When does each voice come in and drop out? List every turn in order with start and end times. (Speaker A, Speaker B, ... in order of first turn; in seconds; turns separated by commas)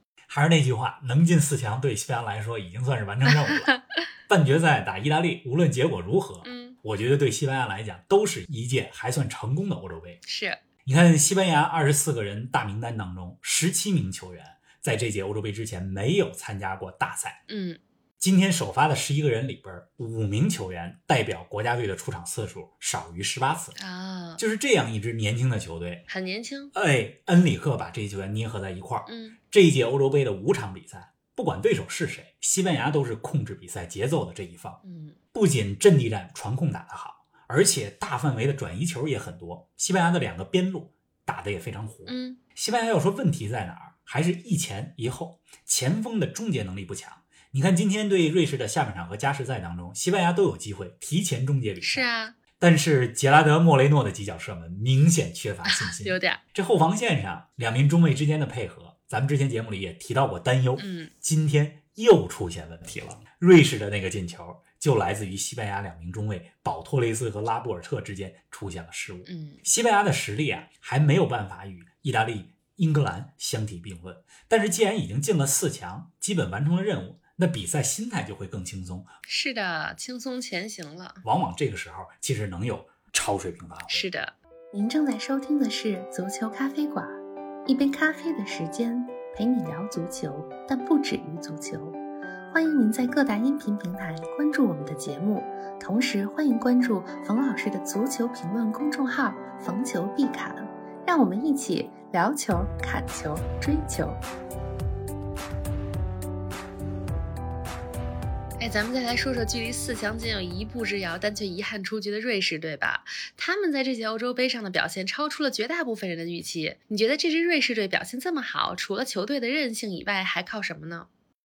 Speaker A: 0.3-3.7, Speaker B: 3.3-3.8, Speaker A: 4.3-10.2, Speaker B: 6.4-6.8, Speaker B: 10.2-10.6, Speaker A: 10.8-17.4, Speaker B: 17.5-17.8, Speaker A: 18.2-23.8, Speaker B: 23.8-24.4, Speaker A: 24.4-26.0, Speaker B: 26.1-26.7, Speaker A: 26.7-34.8, Speaker B: 29.1-29.4, Speaker B: 34.8-35.2, Speaker A: 35.3-52.1, Speaker B: 42.1-42.4, Speaker B: 51.8-52.4, Speaker A: 52.6-79.1, Speaker B: 55.6-56.4, Speaker B: 60.8-61.1, Speaker B: 69.3-69.6, Speaker B: 79.3-81.2, Speaker A: 81.2-84.1, Speaker B: 83.9-84.3, Speaker C: 84.7-87.1, Speaker C: 87.7-92.0, Speaker C: 92.5-104.2, Speaker B: 101.7-102.2, Speaker B: 103.2-103.9, Speaker B: 108.6-121.1